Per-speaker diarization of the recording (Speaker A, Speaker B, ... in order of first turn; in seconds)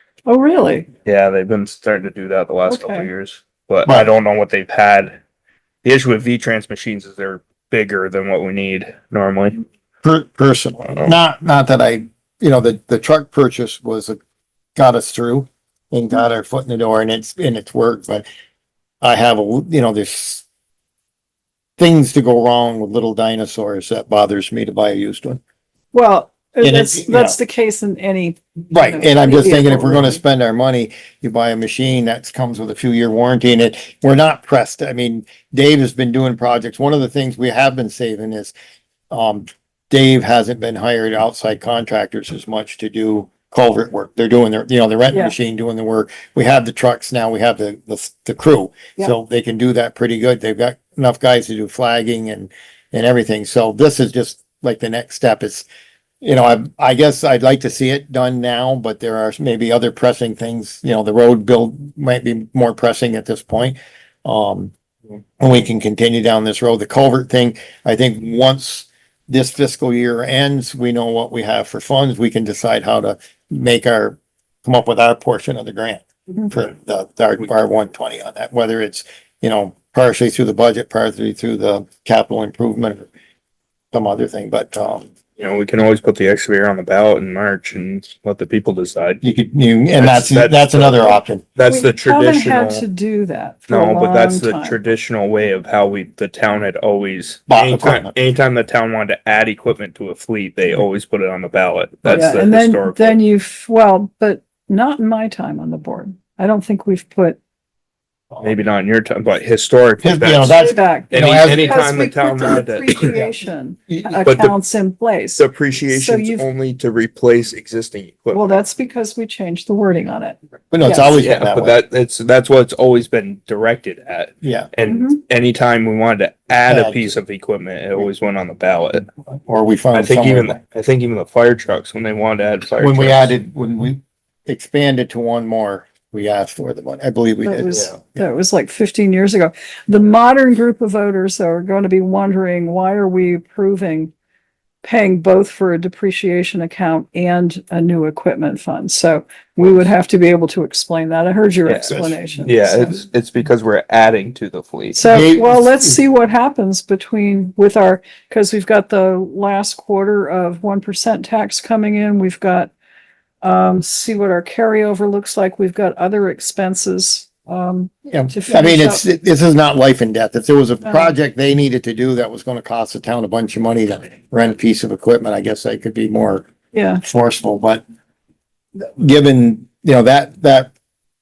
Speaker A: 0.2-0.9, 2.7-3.1, 25.9-30.2, 91.7-94.8, 102.1-107.4, 110.5-116.5, 118.3-121.2, 124.8-125.2, 137.4-144.1, 144.8-153.0, 154.9-162.7, 163.4-169.0, 170.8-171.1, 176.7-177.0
Speaker B: 1.0-5.2, 5.8-9.6, 85.4-89.2, 90.0-92.8, 93.7-103.2, 108.4-113.2, 114.2-114.5, 115.3-118.5, 121.2-129.1, 129.9-133.3, 151.7-155.4
Speaker C: 3.9-4.1, 10.0-14.2, 14.8-18.2, 19.0-20.4, 21.8-25.4, 26.6-27.4, 28.7-38.5, 39.1-55.7, 56.2-64.7, 65.4-83.1, 83.9-85.1, 89.2-91.4, 97.5-98.1, 110.0-111.9, 113.0-113.3, 113.9-114.2, 120.7-121.8, 124.4-124.7, 126.6-127.1, 129.4-130.6, 132.8-138.2, 151.9-152.5, 155.1-156.0, 168.1-176.5, 177.0-177.8, 178.8-180.7